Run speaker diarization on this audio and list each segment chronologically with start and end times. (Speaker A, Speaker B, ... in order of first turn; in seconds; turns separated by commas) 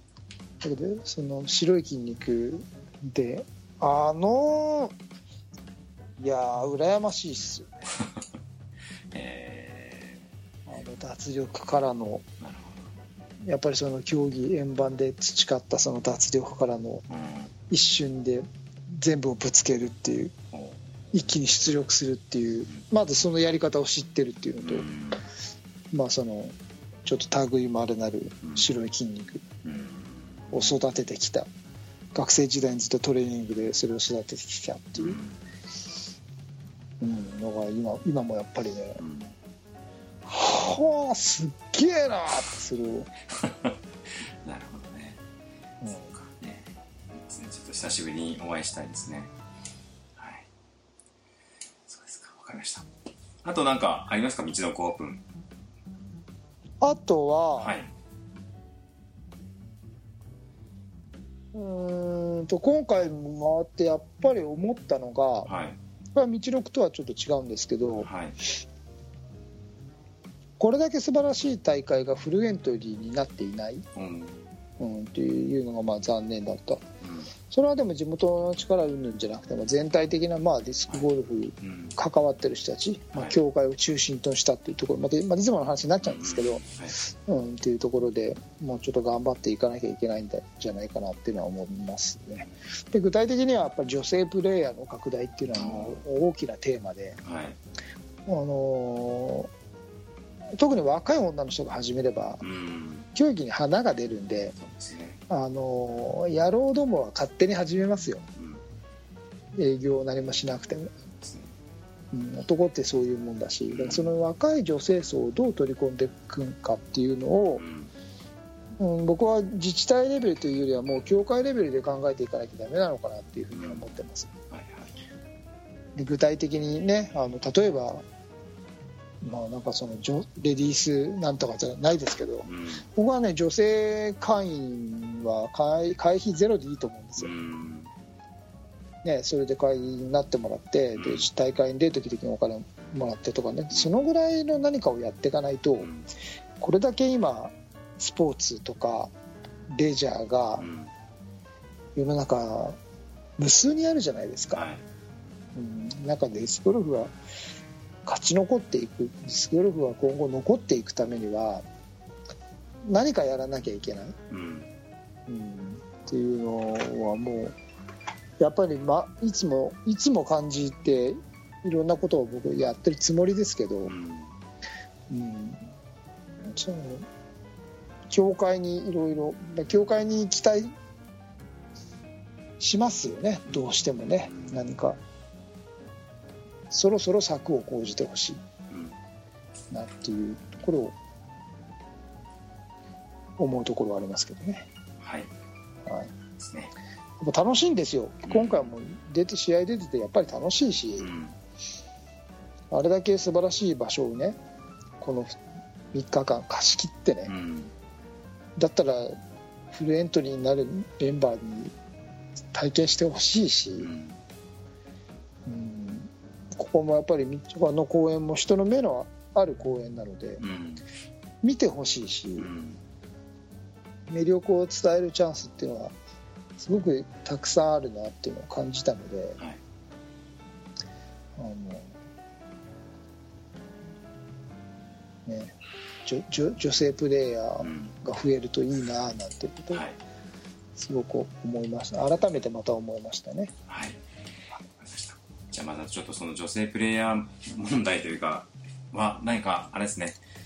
Speaker A: 0.6-4.9, Speaker A: 6.2-7.8, Speaker B: 8.0-8.2, Speaker B: 9.1-10.2, Speaker A: 10.7-12.2, Speaker B: 12.4-12.8, Speaker A: 13.4-17.0, Speaker B: 17.1-17.5, Speaker A: 17.7-20.3, Speaker B: 20.5-20.8, Speaker A: 21.1-24.9, Speaker B: 24.6-25.2, Speaker A: 25.9-29.4, Speaker B: 29.6-30.8, Speaker A: 30.5-31.5, Speaker A: 32.1-35.2, Speaker B: 35.0-35.4, Speaker A: 37.0-39.0, Speaker B: 39.0-39.3, Speaker A: 40.3-43.1, Speaker B: 43.3-43.8, Speaker B: 44.4-45.2, Speaker A: 45.8-46.1, Speaker B: 45.9-49.3, Speaker B: 50.2-50.5, Speaker B: 51.9-52.9, Speaker B: 53.4-55.2, Speaker A: 56.8-57.7, Speaker B: 57.6-57.9, Speaker A: 61.5-65.5, Speaker B: 65.5-65.8, Speaker A: 66.1-68.1, Speaker B: 68.0-68.4, Speaker A: 70.6-73.8, Speaker B: 73.9-74.5, Speaker A: 74.8-76.9, Speaker B: 77.0-77.3, Speaker A: 77.5-97.2, Speaker B: 81.6-82.0, Speaker B: 86.0-86.9, Speaker B: 95.5-96.0, Speaker B: 97.2-97.6, Speaker A: 98.2-99.5, Speaker A: 100.5-102.4, Speaker B: 102.4-103.1, Speaker A: 103.1-104.5, Speaker B: 104.6-105.2, Speaker A: 105.3-108.3, Speaker B: 108.3-108.6, Speaker A: 109.5-110.9, Speaker B: 111.2-111.5, Speaker A: 112.1-117.6, Speaker B: 113.7-114.1, Speaker B: 117.6-117.9, Speaker A: 118.8-124.3, Speaker B: 123.5-123.9, Speaker B: 124.5-124.9, Speaker A: 126.0-128.0, Speaker A: 129.2-137.3, Speaker B: 132.4-132.8, Speaker B: 137.2-137.9, Speaker A: 139.0-145.9, Speaker B: 140.9-141.3, Speaker B: 145.8-146.1, Speaker A: 146.6-149.1, Speaker A: 149.7-150.7, Speaker B: 150.6-150.9, Speaker A: 151.9-152.8, Speaker A: 153.4-154.6, Speaker B: 154.5-154.8, Speaker A: 155.5-157.1, Speaker A: 158.1-161.6, Speaker A: 162.8-164.2, Speaker B: 164.3-164.7, Speaker A: 165.3-167.6, Speaker A: 168.4-173.9, Speaker B: 173.8-174.3, Speaker A: 175.1-175.7, Speaker A: 176.4-177.1, Speaker A: 178.1-180.7, Speaker A: 182.6-185.0, Speaker B: 184.2-184.6, Speaker A: 186.7-188.4, Speaker B: 188.7-188.9, Speaker A: 189.7-190.9, Speaker A: 193.4-194.7, Speaker B: 195.0-195.3, Speaker A: 195.8-196.1, Speaker B: 196.4-196.7, Speaker A: 197.2-201.1, Speaker B: 198.3-198.7, Speaker B: 201.0-201.3, Speaker A: 202.7-204.4, Speaker A: 205.0-205.4, Speaker A: 205.9-207.3, Speaker B: 207.3-207.7, Speaker A: 208.6-209.2, Speaker A: 209.7-211.7, Speaker A: 212.5-213.9, Speaker B: 213.8-214.2, Speaker A: 215.4-220.4, Speaker B: 220.4-220.8, Speaker A: 221.4-222.5, Speaker B: 222.4-222.8, Speaker A: 224.1-225.9, Speaker A: 226.6-229.4, Speaker A: 231.4-231.9, Speaker A: 235.2-235.5, Speaker A: 236.1-239.8, Speaker B: 237.6-237.9, Speaker B: 239.7-240.0, Speaker A: 240.8-243.5, Speaker B: 243.7-244.0, Speaker B: 244.8-250.2